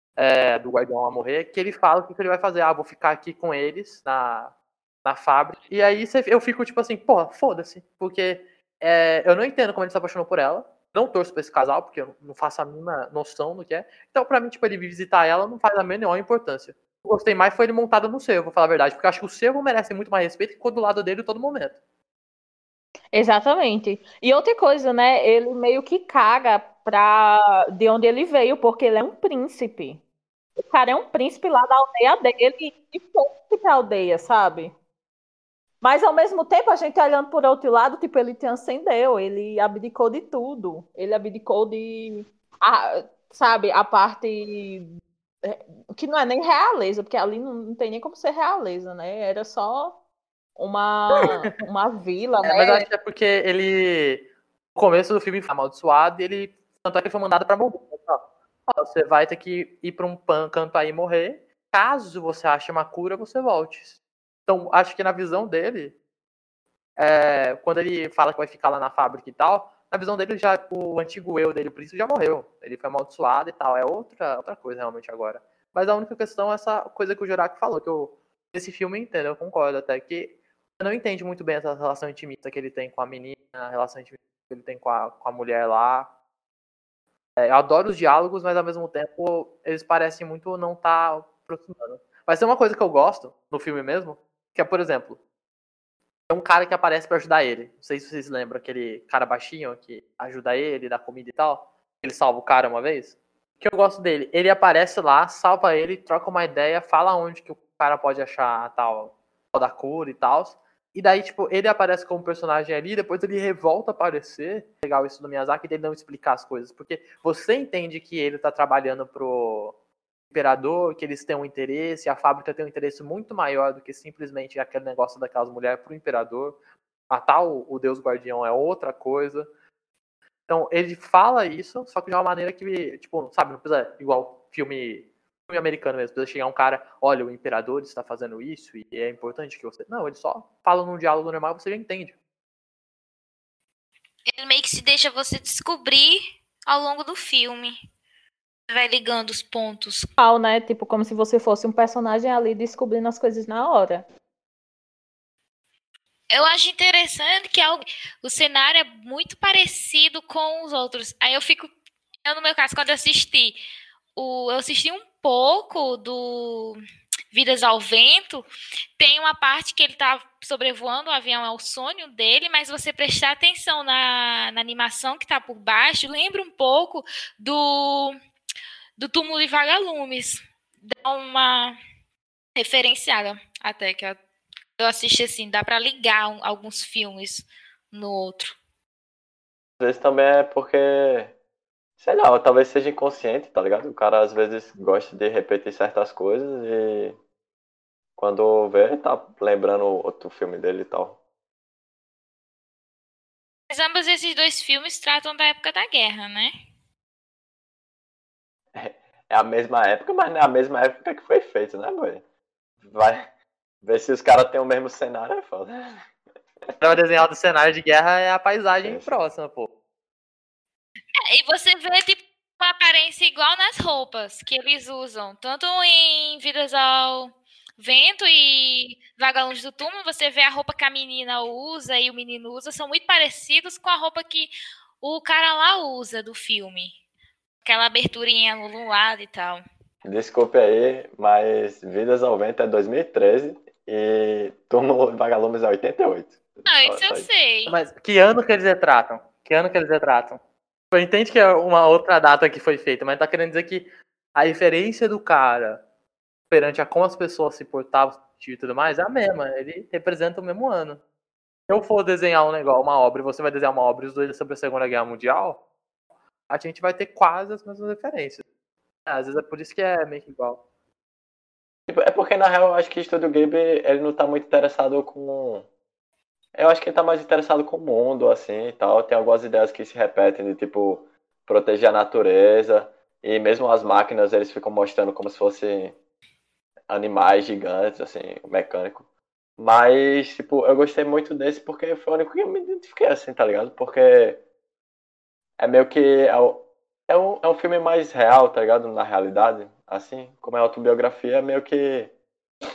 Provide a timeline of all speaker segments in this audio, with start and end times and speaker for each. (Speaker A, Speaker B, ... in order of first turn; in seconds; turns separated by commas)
Speaker A: 0.2-21.8, Speaker B: 23.1-30.0, Speaker B: 30.6-34.7, Speaker B: 35.8-44.9, Speaker B: 45.4-50.0, Speaker B: 50.6-52.8, Speaker A: 52.4-66.0, Speaker A: 67.0-86.1, Speaker A: 87.4-95.2, Speaker A: 96.3-119.8, Speaker A: 120.3-126.6, Speaker A: 127.1-129.5, Speaker A: 130.5-142.2, Speaker C: 144.3-147.8, Speaker C: 148.7-150.1, Speaker B: 150.2-154.1, Speaker C: 156.3-161.7, Speaker C: 162.2-163.6, Speaker C: 164.2-166.8, Speaker C: 167.3-168.4, Speaker C: 169.0-178.1, Speaker C: 179.0-181.8, Speaker C: 182.6-184.2, Speaker C: 184.8-188.6, Speaker D: 189.8-191.3, Speaker D: 192.0-197.2, Speaker D: 198.2-201.2, Speaker C: 203.7-206.5, Speaker D: 208.8-212.2, Speaker D: 212.8-213.3, Speaker D: 213.8-216.1, Speaker A: 216.8-219.7, Speaker D: 218.8-219.2, Speaker C: 221.3-237.0, Speaker C: 237.7-239.6, Speaker D: 240.0-247.3, Speaker C: 246.7-247.8, Speaker A: 247.7-250.4, Speaker A: 250.9-255.8, Speaker A: 256.5-261.0, Speaker A: 261.7-265.6, Speaker A: 266.5-268.4, Speaker A: 269.1-270.6, Speaker D: 271.9-275.7, Speaker D: 276.6-286.0, Speaker D: 286.9-289.1, Speaker D: 289.6-294.4, Speaker D: 295.6-302.1